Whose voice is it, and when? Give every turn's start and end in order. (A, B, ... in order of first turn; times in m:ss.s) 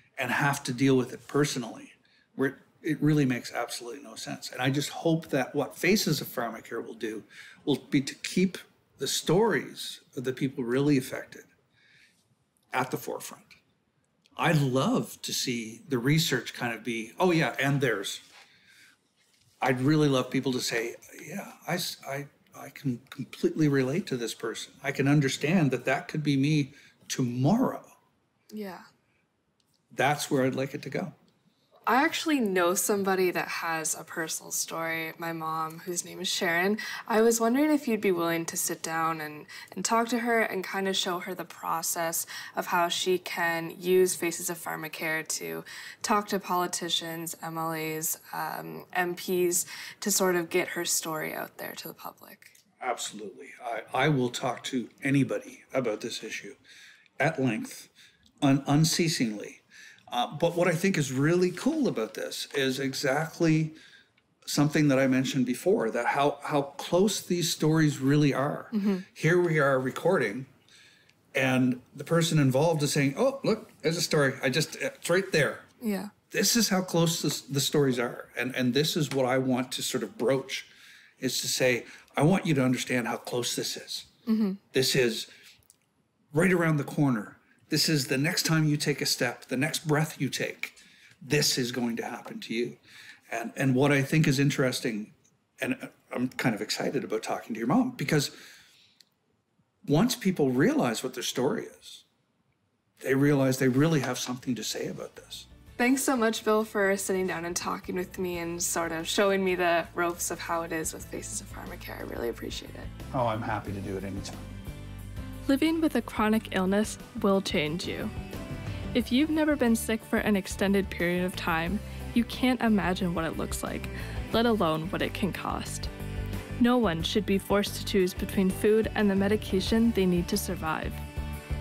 0:00.2-0:11.5 A
0:12.7-0:13.6 A
0:14.4-0:18.2 A
0:19.6-0:27.9 A
0:28.5-0:28.8 B
0:29.9-0:31.2 A
0:31.9-0:52.5 B
0:52.8-0:56.6 A
0:57.2-0:57.9 A
0:58.4-1:03.8 A
1:04.4-1:10.5 A
1:08.7-1:09.0 B
1:11.3-1:15.7 A
1:15.8-1:16.1 B
1:16.3-1:24.1 A
1:24.3-1:24.6 B
1:24.7-1:25.3 A
1:26.3-1:38.4 A
1:39.8-1:42.0 A
1:43.0-1:45.5 A
1:45.8-1:52.9 B
1:53.1-1:54.6 A
1:55.5-1:58.1 C
1:58.9-2:05.9 C
2:06.6-2:11.0 C